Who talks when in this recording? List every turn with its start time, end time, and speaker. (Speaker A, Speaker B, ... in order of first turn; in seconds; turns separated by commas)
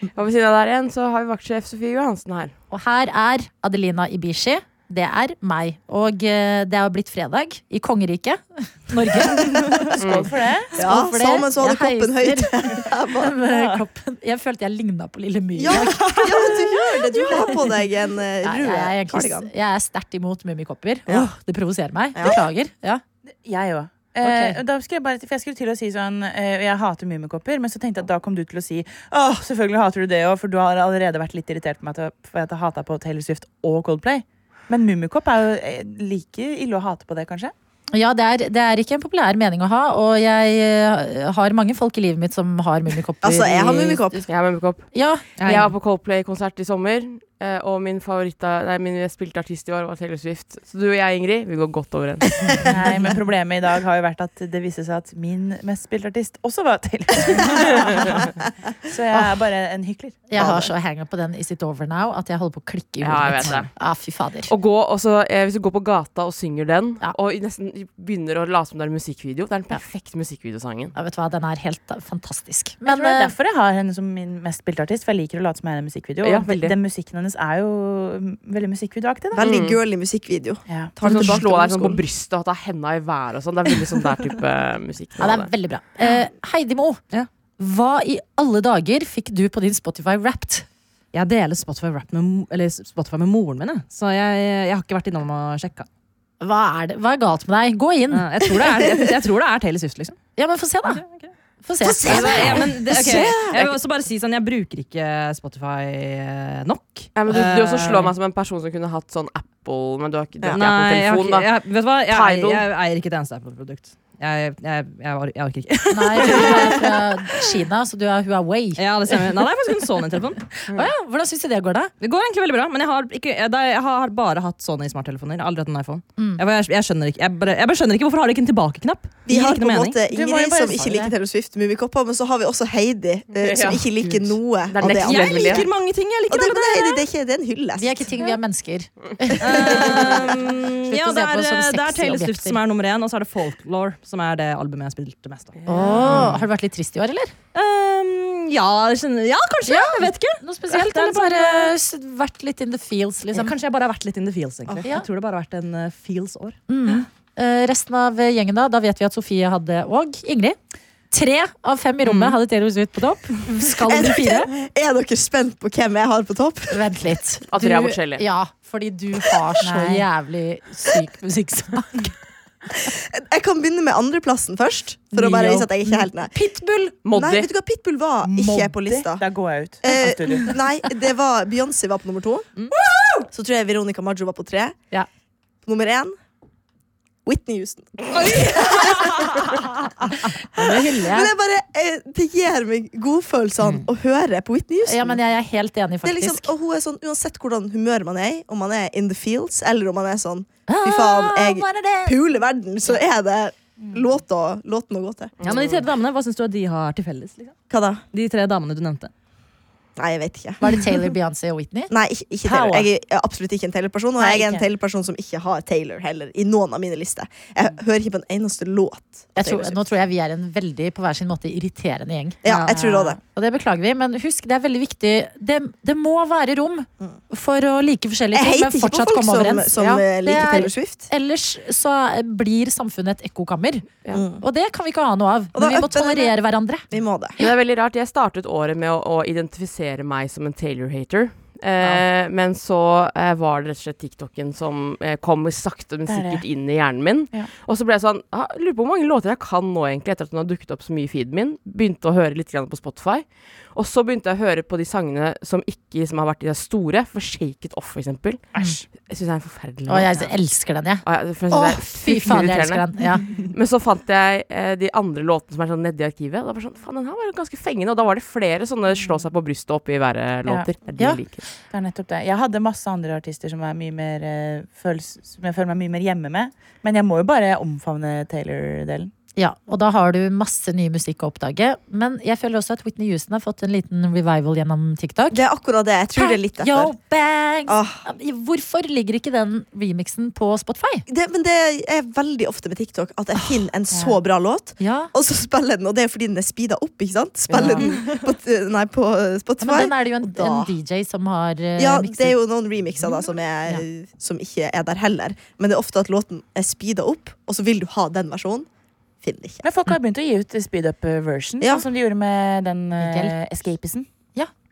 Speaker A: 0.1-2.5, Speaker B: 2.7-10.0, Speaker C: 9.3-9.7, Speaker D: 9.9-10.7, Speaker A: 10.0-10.3, Speaker C: 10.7-13.4, Speaker B: 10.8-17.6, Speaker D: 13.5-13.8, Speaker C: 15.6-19.5, Speaker B: 18.4-23.0, Speaker C: 22.1-22.4, Speaker D: 23.4-37.5, Speaker B: 24.2-24.6, Speaker B: 37.9-44.2, Speaker C: 43.2-44.3, Speaker A: 44.3-52.6, Speaker B: 44.9-45.2, Speaker E: 45.4-45.7, Speaker D: 52.6-60.5, Speaker B: 59.1-59.4, Speaker B: 60.3-64.5, Speaker C: 60.4-60.7, Speaker A: 63.0-63.7, Speaker A: 64.5-70.9, Speaker B: 70.9-73.3, Speaker D: 72.8-79.5, Speaker A: 76.2-76.8, Speaker C: 79.3-82.0, Speaker A: 79.4-79.8, Speaker A: 81.0-85.5, Speaker B: 85.2-87.0, Speaker B: 87.6-90.7, Speaker E: 91.1-95.9, Speaker B: 96.4-98.3, Speaker E: 98.1-100.2, Speaker B: 100.4-101.0, Speaker E: 100.9-108.1, Speaker B: 101.6-103.8, Speaker C: 101.8-103.6, Speaker A: 107.1-111.5, Speaker E: 110.5-117.4, Speaker A: 112.1-112.7, Speaker B: 115.9-118.8, Speaker E: 118.8-120.4, Speaker B: 120.6-121.9, Speaker E: 122.0-130.0, Speaker B: 126.2-126.4, Speaker C: 129.3-135.7, Speaker D: 130.1-131.1, Speaker A: 133.3-135.7, Speaker E: 134.8-137.0, Speaker C: 136.3-138.1, Speaker B: 137.8-140.2, Speaker E: 139.4-146.4, Speaker C: 139.5-140.2, Speaker B: 140.9-142.6, Speaker A: 145.6-146.2, Speaker B: 145.7-147.3, Speaker C: 146.0-146.4, Speaker E: 147.5-151.7, Speaker B: 149.6-153.6, Speaker E: 153.3-156.6, Speaker B: 156.7-160.6, Speaker B: 161.1-164.5, Speaker E: 162.0-162.4, Speaker E: 163.5-163.8, Speaker C: 163.8-166.9, Speaker B: 166.7-172.1, Speaker A: 167.5-168.2, Speaker D: 169.6-170.1, Speaker C: 172.7-176.3, Speaker B: 175.1-176.9, Speaker A: 177.0-177.5, Speaker C: 177.1-179.2, Speaker D: 178.2-180.6, Speaker C: 179.8-182.5, Speaker C: 183.3-184.8, Speaker C: 185.6-186.2, Speaker C: 187.2-189.7, Speaker B: 190.5-191.3, Speaker C: 190.6-195.2, Speaker B: 194.8-196.5, Speaker C: 196.0-205.3, Speaker B: 200.7-202.2, Speaker D: 203.8-204.1, Speaker A: 205.4-205.9, Speaker E: 205.4-207.5, Speaker C: 207.7-208.0, Speaker E: 208.1-209.1, Speaker C: 210.0-210.7, Speaker B: 210.6-211.9, Speaker C: 211.9-219.9, Speaker D: 212.5-212.9, Speaker D: 214.2-214.6, Speaker B: 219.3-233.9, Speaker C: 222.4-223.2, Speaker E: 222.5-222.7, Speaker C: 228.3-231.1, Speaker A: 229.8-230.0, Speaker C: 234.1-234.4, Speaker B: 234.4-236.9, Speaker C: 235.5-236.3, Speaker C: 236.9-237.3, Speaker A: 237.4-258.4, Speaker D: 246.1-246.4, Speaker D: 258.5-258.8, Speaker A: 259.0-260.3, Speaker B: 259.9-263.3, Speaker A: 261.0-271.4, Speaker D: 271.7-279.1, Speaker B: 279.4-285.4, Speaker C: 285.3-286.9, Speaker B: 286.1-291.1, Speaker C: 287.7-288.0, Speaker C: 291.1-300.7, Speaker B: 294.8-295.1, Speaker B: 297.5-297.8, Speaker E: 297.6-297.9, Speaker B: 299.6-302.4, Speaker C: 301.8-308.7, Speaker C: 309.2-309.6, Speaker D: 309.6-314.1, Speaker C: 311.6-311.9, Speaker B: 313.0-313.3